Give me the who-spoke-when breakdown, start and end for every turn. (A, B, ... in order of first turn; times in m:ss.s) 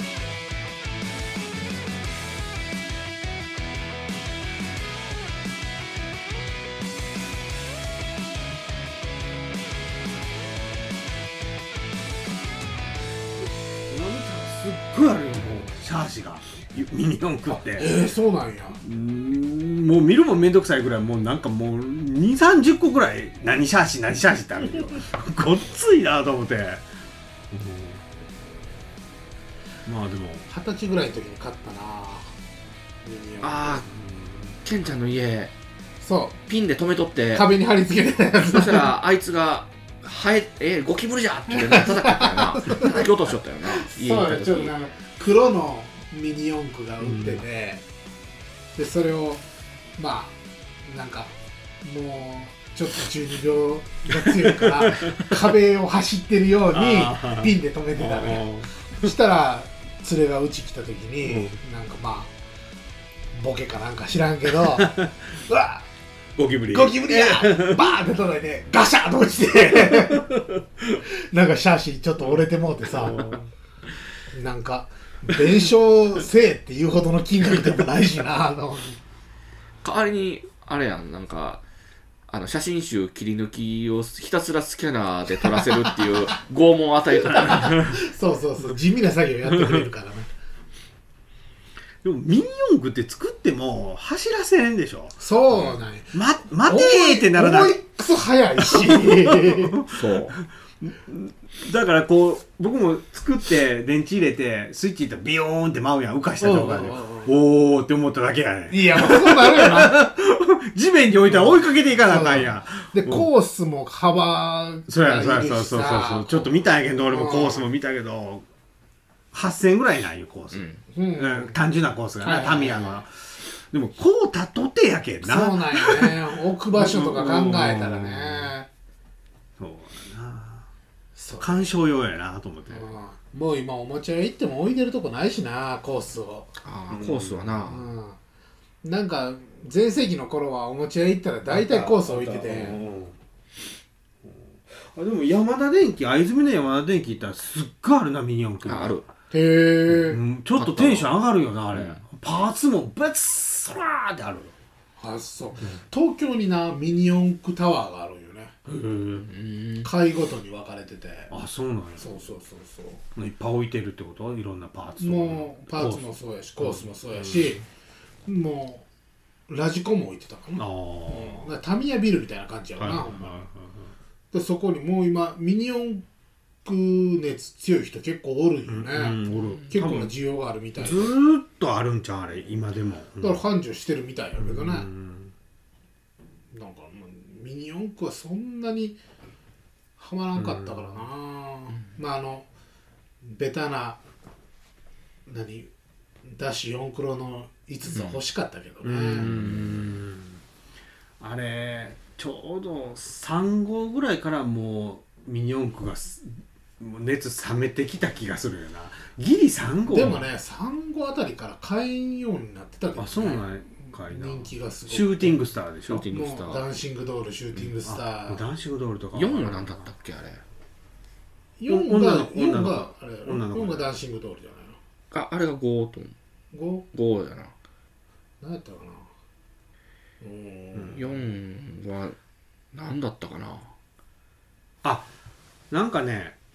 0:13.9-0:17.9 A
0:17.5-0:18.8 B
0:18.8-0:26.8 A
0:27.5-0:28.1 A
0:29.9-0:30.5 A
0:30.5-0:32.3 B
0:33.0-0:33.8 B
0:33.4-0:33.9 C
0:33.9-0:34.6 A
0:34.6-0:35.5 C
0:36.0-0:36.4 B
0:36.5-0:37.5 C
0:37.3-0:38.9 B
0:38.5-0:44.7 C
0:41.5-0:43.1 B
0:43.6-0:47.8 B
0:47.0-0:47.4 A
0:48.8-0:49.4 B
0:50.0-1:02.3 B
0:54.1-0:55.4 A
0:56.7-0:59.1 A
1:01.2-1:01.6 A
1:03.3-1:05.8 B
1:04.6-1:05.2 A
1:06.4-1:07.9 A
1:06.7-1:10.4 B
1:09.7-1:11.0 A
1:11.1-1:13.4 B
1:12.8-1:13.5 A
1:14.3-1:19.0 B
1:19.8-1:21.6 C
1:22.3-1:27.7 C
1:27.3-1:30.3 B
1:27.3-1:27.8 A
1:32.0-1:35.2 A
1:35.2-1:39.8 B
1:36.1-1:37.8 A
1:38.6-1:53.3 A
1:39.9-1:40.4 C
1:46.4-1:47.3 B
1:48.7-1:50.1 B
1:51.3-1:57.6 B
1:54.9-1:58.5 A
1:59.3-2:08.5 A
2:00.5-2:00.8 C
2:00.9-2:01.6 B
2:02.2-2:03.0 B
2:05.2-2:08.7 B
2:09.6-2:10.7 A
2:11.2-2:11.8 B
2:11.4-2:12.9 A
2:12.7-2:16.5 B
2:16.6-2:17.9 C
2:16.9-2:17.7 A
2:17.7-2:18.2 B
2:18.8-2:22.8 B
2:21.5-2:23.2 A
2:24.2-2:29.0 A
2:28.6-2:29.1 C
2:29.3-2:30.2 B
2:29.9-2:34.5 A
2:30.6-2:31.2 C
2:31.7-2:32.0 C
2:35.0-2:38.5 B
2:38.7-2:39.3 A
2:39.3-2:39.9 C
2:39.8-2:41.4 B
2:41.3-2:42.2 A
2:42.0-2:43.0 B
2:43.2-2:46.1 A
2:45.0-2:47.6 B
2:46.6-2:47.6 A
2:48.3-2:48.9 B
2:49.5-2:53.4 B
2:50.6-2:51.5 A
2:52.8-2:53.9 A
2:54.3-2:56.0 B
2:56.6-3:01.2 B
2:58.7-3:00.1 A
2:59.3-2:59.7 C
3:00.8-3:03.4 A
3:03.2-3:04.9 B
3:04.4-3:05.3 A
3:06.5-3:09.0 B
3:10.0-3:12.5 B
3:10.4-3:10.9 A
3:13.2-3:14.0 B
3:15.3-3:15.7 B
3:16.2-3:19.3 B
3:17.9-3:18.2 C
3:18.8-3:20.4 A
3:19.2-3:19.6 C
3:21.2-3:30.3 A
3:29.9-3:35.4 B
3:33.0-3:36.1 A
3:35.9-3:36.6 C
3:36.1-3:38.4 B
3:37.8-3:39.9 A
3:39.1-3:40.4 C
3:41.6-3:44.8 B
3:41.7-3:43.9 A
3:45.1-3:46.2 C
3:46.5-3:46.9 B
3:46.9-3:47.5 C
3:48.4-3:49.1 B
3:50.2-3:51.2 B
3:50.9-3:52.2 C
3:52.7-3:53.7 C
3:54.8-3:55.1 A
3:55.7-3:56.4 A